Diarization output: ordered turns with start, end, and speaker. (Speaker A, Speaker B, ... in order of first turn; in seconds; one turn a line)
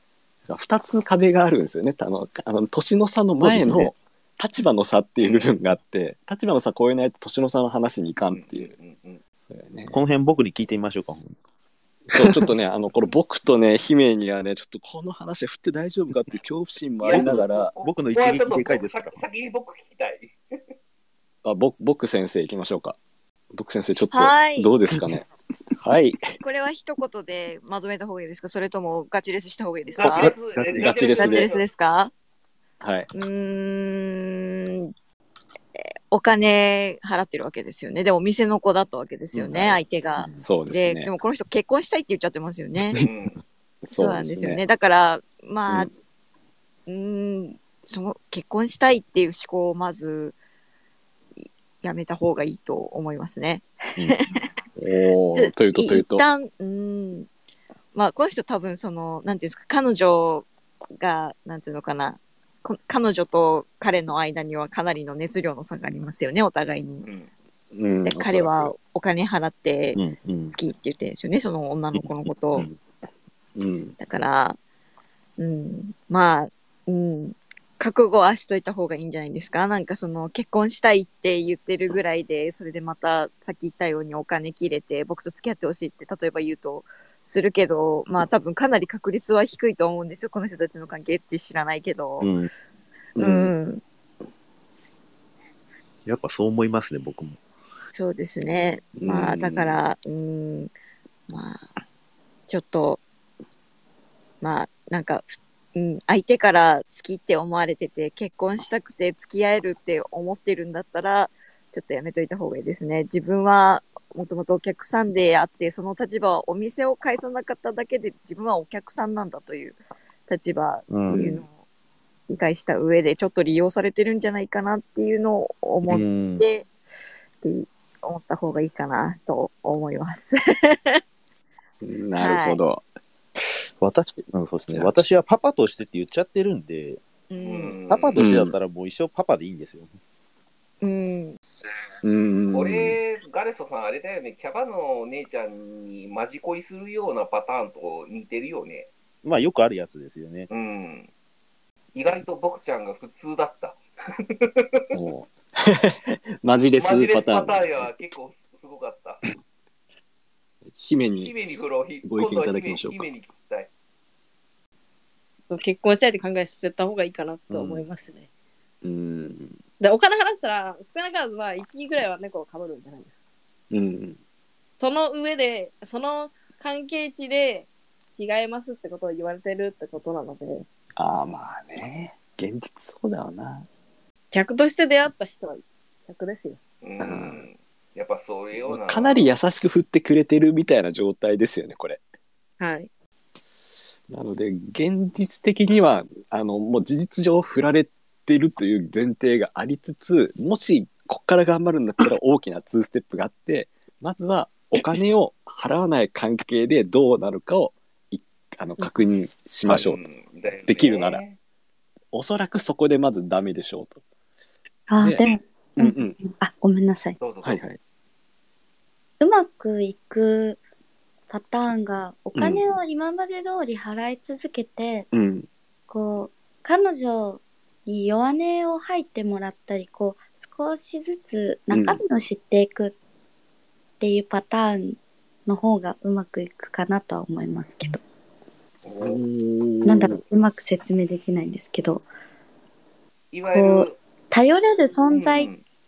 Speaker A: 0.5-8.7
Speaker B: 3.4-3.9
Speaker C: 5.2-5.5
Speaker C: 8.3-9.2
Speaker A: 9.5-10.0
Speaker B: 9.9-11.3
Speaker A: 12.1-17.7
Speaker C: 17.0-20.4
Speaker B: 17.1-19.2
Speaker A: 21.4-23.0
Speaker A: 23.5-25.2
Speaker D: 24.1-24.7
Speaker A: 25.8-26.2
Speaker D: 26.4-30.3
Speaker C: 29.9-31.6
Speaker A: 30.0-31.5
Speaker D: 31.2-32.1
Speaker A: 32.8-33.1
Speaker D: 33.1-34.9
Speaker D: 35.8-43.0
Speaker A: 39.4-39.8
Speaker A: 40.4-41.1
Speaker C: 43.0-43.4
Speaker A: 43.8-44.6
Speaker D: 43.9-45.9
Speaker D: 46.9-50.4
Speaker D: 51.8-54.5
Speaker A: 54.8-56.2
Speaker D: 55.3-57.3
Speaker D: 57.9-60.5
Speaker D: 61.0-67.1
Speaker C: 67.0-67.3
Speaker A: 67.7-68.7
Speaker D: 68.0-72.7
Speaker B: 70.0-70.5
Speaker B: 71.9-72.8
Speaker A: 73.6-74.0
Speaker D: 74.0-74.6
Speaker D: 75.4-92.3
Speaker B: 92.2-92.5
Speaker A: 93.2-93.5
Speaker D: 93.2-93.8
Speaker B: 96.1-97.4
Speaker D: 97.9-100.7
Speaker A: 99.0-99.8
Speaker D: 101.3-101.7
Speaker D: 102.5-103.0
Speaker D: 104.4-121.5
Speaker B: 120.9-121.4
Speaker D: 122.3-126.7
Speaker B: 125.9-126.4
Speaker D: 127.4-131.0
Speaker A: 131.8-132.8
Speaker D: 132.2-132.6
Speaker B: 133.8-137.0
Speaker A: 134.7-135.1
Speaker D: 137.3-137.8
Speaker C: 137.4-138.2
Speaker B: 137.9-139.9
Speaker A: 138.2-138.6
Speaker D: 140.8-141.4
Speaker A: 142.0-143.0
Speaker C: 142.5-148.9
Speaker B: 149.2-150.5
Speaker C: 150.5-151.1
Speaker C: 151.9-153.8
Speaker A: 154.9-157.9
Speaker C: 156.8-159.2
Speaker A: 160.7-161.3
Speaker C: 161.2-163.7
Speaker A: 162.0-163.1
Speaker E: 165.5-168.3
Speaker A: 167.5-167.9
Speaker A: 168.8-169.6
Speaker E: 169.8-173.2
Speaker A: 173.7-174.2
Speaker E: 174.8-180.7
Speaker A: 181.0-183.7
Speaker E: 184.3-186.6
Speaker C: 186.8-189.3
Speaker A: 187.0-187.4
Speaker A: 188.6-192.0
Speaker E: 192.6-192.9
Speaker A: 194.1-210.0
Speaker C: 209.7-211.4
Speaker A: 210.6-211.2
Speaker A: 212.1-214.0
Speaker F: 214.9-217.2
Speaker A: 215.0-216.2
Speaker C: 217.2-217.6
Speaker A: 217.4-217.8
Speaker F: 219.2-220.6
Speaker F: 221.3-225.1
Speaker A: 222.3-222.7
Speaker A: 225.1-225.5
Speaker F: 225.9-232.9
Speaker A: 231.7-232.0
Speaker F: 234.0-238.0
Speaker C: 238.8-239.2
Speaker A: 239.0-240.2
Speaker F: 239.8-242.1
Speaker C: 243.3-244.0
Speaker F: 243.5-245.5
Speaker C: 245.0-245.7